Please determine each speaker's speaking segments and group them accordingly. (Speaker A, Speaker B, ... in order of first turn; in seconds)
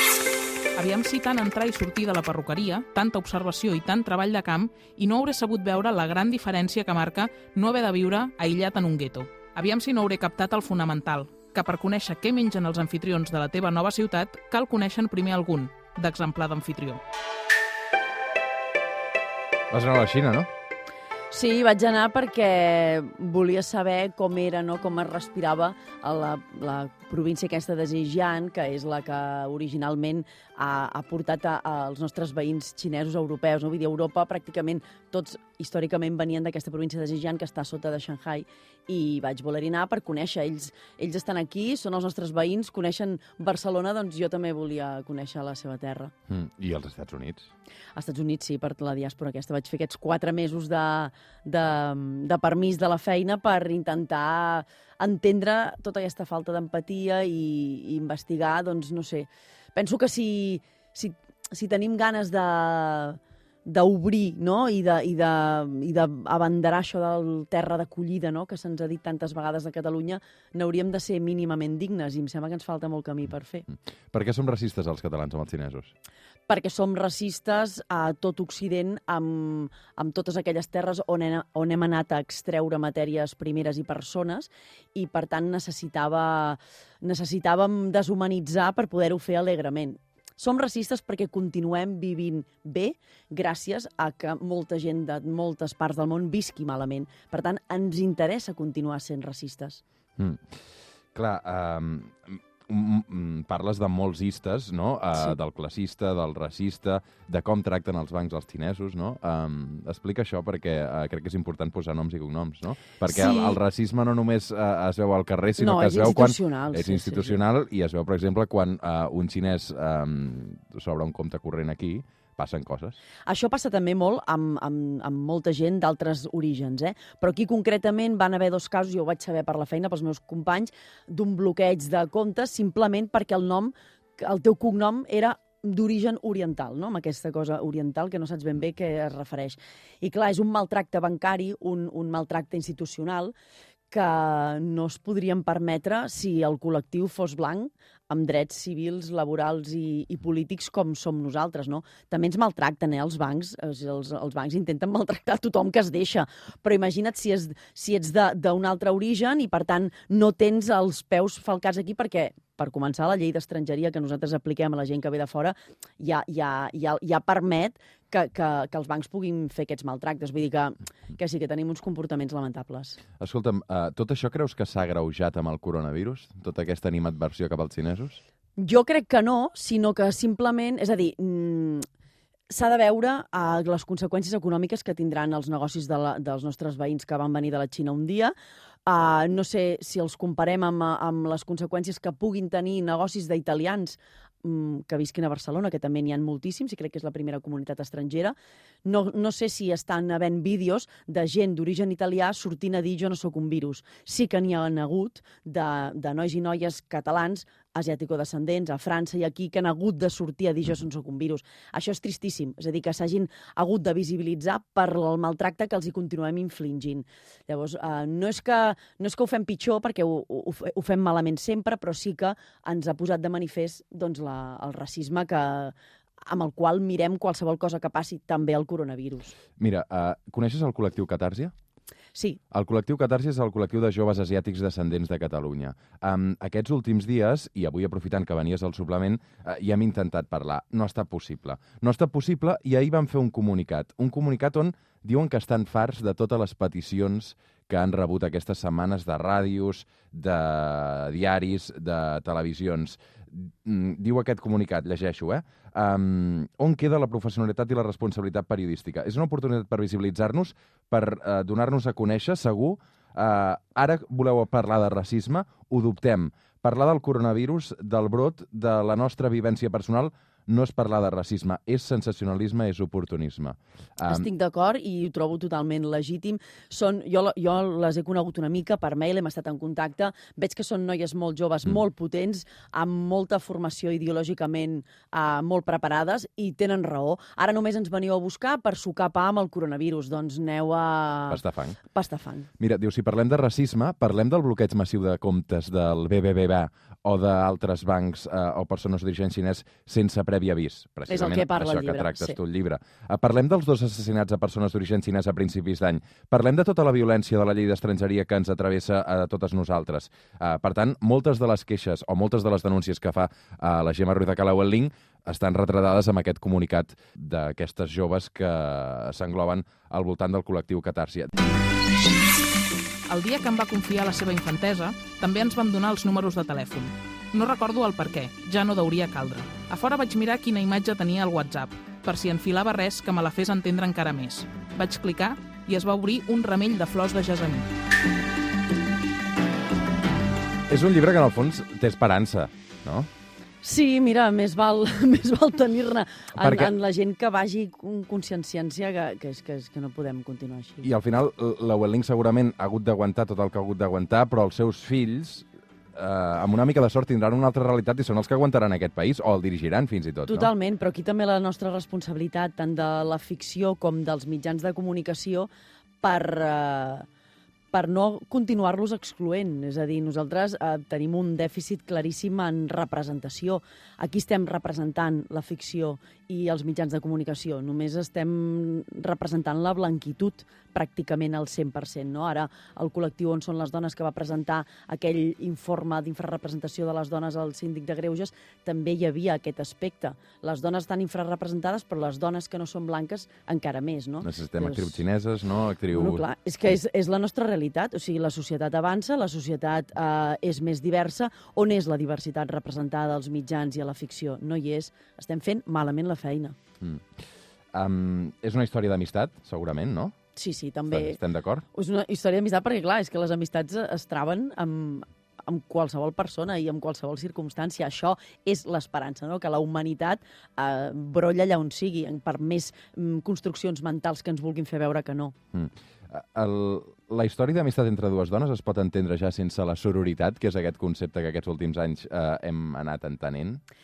Speaker A: 0.8-17.0, 323.1-337.7
Speaker B: 19.7-20.5, 46.3-47.5, 74.1-75.9, 100.2-100.6, 101.1-123.0, 173.2-178.2, 229.6-231.5, 232.5-274.3, 291.3-291.8, 292.6-321.3, 340.7-343.1, 346.4-346.7, 350.8-360.5, 394.2-396.2, 407.7-410.1, 410.9-411.6, 425.5-433.6
Speaker C: 21.3-46.1, 48.0-73.7, 76.5-99.8, 113.0-113.6, 115.6-117.4, 123.3-143.3, 143.9-173.0, 178.6-181.8, 182.5-188.3, 188.8-225.7, 226.2-229.3, 274.1-292.5, 301.1-302.4, 343.6-350.9, 360.2-365.5, 366.0-367.1, 367.7-395.0, 395.9-406.6, 410.4-411.2, 411.7-425.3